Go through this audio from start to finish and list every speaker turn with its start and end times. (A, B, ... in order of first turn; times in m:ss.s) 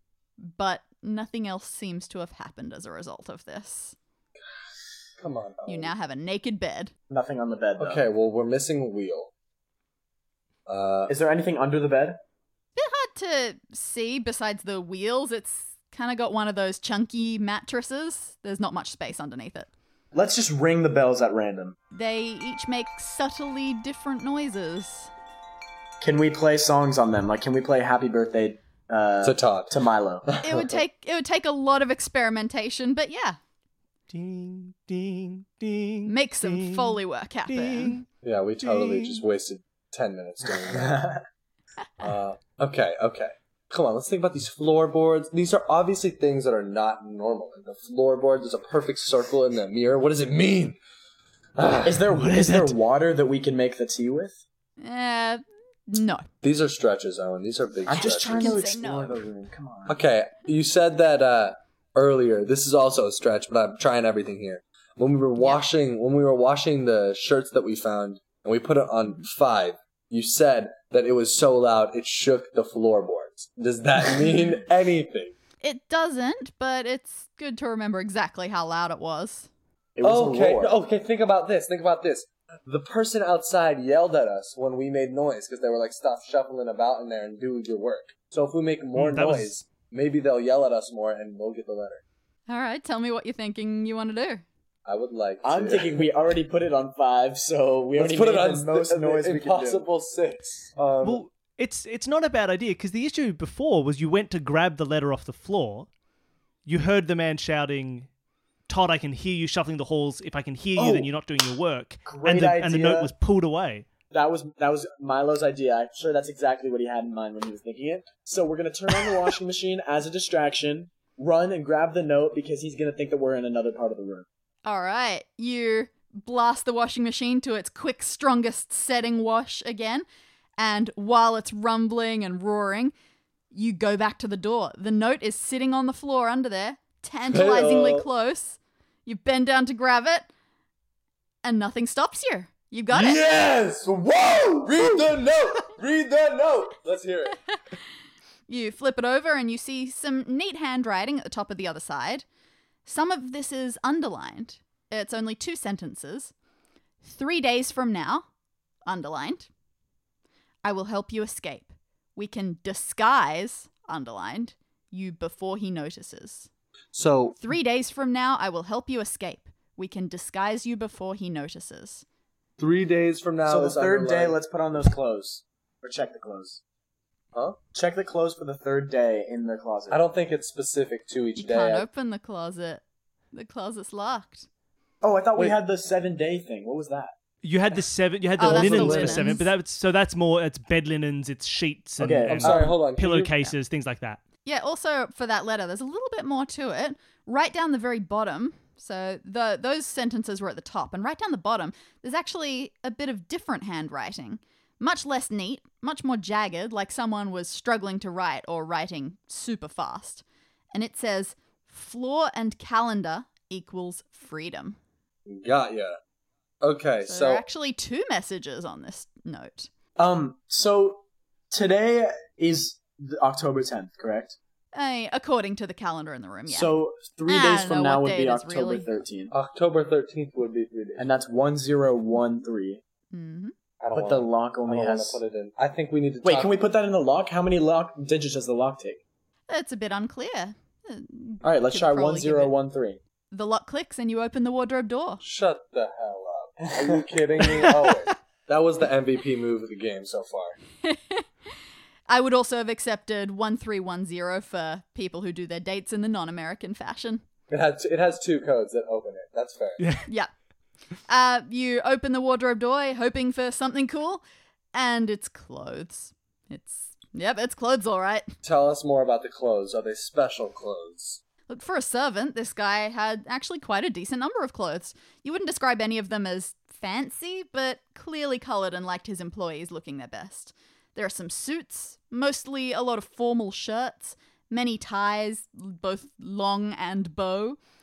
0:00.4-0:04.0 A
0:05.2-0:05.9 B
0:05.7-0:06.9 A
0:07.1-0:08.0 C
0:07.8-0:09.3 B
0:10.7-0:11.1 B
0:11.1-0:12.2 C
0:12.8-0:19.7 A
0:20.1-0:21.8 C
0:21.9-0:25.1 A
0:26.0-0:30.3 C
0:29.2-0:30.8 B
0:30.4-0:33.4 A
0:34.1-0:38.0 D
0:36.1-0:38.0 A
0:38.2-0:41.0 B
0:38.6-0:39.2 D
0:40.7-0:41.2 C
0:42.0-0:50.8 B
0:51.6-0:52.1 B
0:51.8-0:54.4 C
0:52.1-0:52.8 D
0:54.8-0:56.2 A
0:56.4-0:58.6 B
0:57.9-1:00.0 C
0:58.2-0:59.2 A
0:59.9-1:15.4 B
1:05.4-1:05.6 A
1:15.6-1:19.5 A
1:20.0-1:20.7 C
1:20.0-1:32.0 B
1:29.0-1:29.6 D
1:32.5-1:34.4 A
1:34.9-1:36.0 B
1:35.4-1:39.8 C
1:38.0-1:41.2 B
1:41.0-1:45.9 D
1:46.7-1:48.1 D
1:48.7-1:53.9 D
1:50.8-1:51.1 C
1:52.0-1:53.1 C
1:54.1-2:04.3 C
2:04.6-2:10.0 A
2:10.6-2:12.9 A
2:13.5-2:20.3 A
2:17.3-2:18.1 B
2:21.4-2:23.2 A
2:22.9-2:27.4 B
2:28.5-2:32.2 A
2:32.8-2:36.3 A
2:37.0-2:38.3 A
2:38.9-2:39.5 A
2:40.6-2:46.5 A
2:46.9-2:47.4 B
2:47.4-2:52.0 A
2:52.6-2:54.4 B
2:53.5-2:56.6 C
2:57.7-3:00.0 C
2:59.9-3:01.9 B
3:01.4-3:04.5 A
3:05.0-3:07.1 C
3:07.4-3:14.2 D
3:08.4-3:09.4 B
3:08.4-3:09.5 A
3:12.0-3:12.8 C
3:12.3-3:13.4 B
3:14.4-3:30.2 A
3:30.7-3:34.8 A
3:35.3-3:36.0 B
3:36.6-3:37.4 B
3:37.0-3:39.7 A
3:40.0-3:44.4 C
3:44.7-3:46.8 A
3:46.5-3:49.3 C
3:47.3-3:49.0 A
3:49.3-3:51.1 B
3:51.0-3:52.8 C
3:53.1-3:53.5 A
3:53.8-3:56.5 B
3:53.9-3:55.2 C
3:56.2-3:59.0 C
3:59.5-4:02.5 A
4:01.4-4:03.0 C
4:03.3-4:05.2 A
4:05.2-4:10.6 B
4:10.8-4:11.2 A
4:12.1-4:17.2 A
4:17.5-4:19.8 B
4:19.8-4:20.1 D
4:21.1-4:24.2 A
4:24.7-4:28.3 A
4:28.4-4:31.2 B
4:31.5-4:47.6 A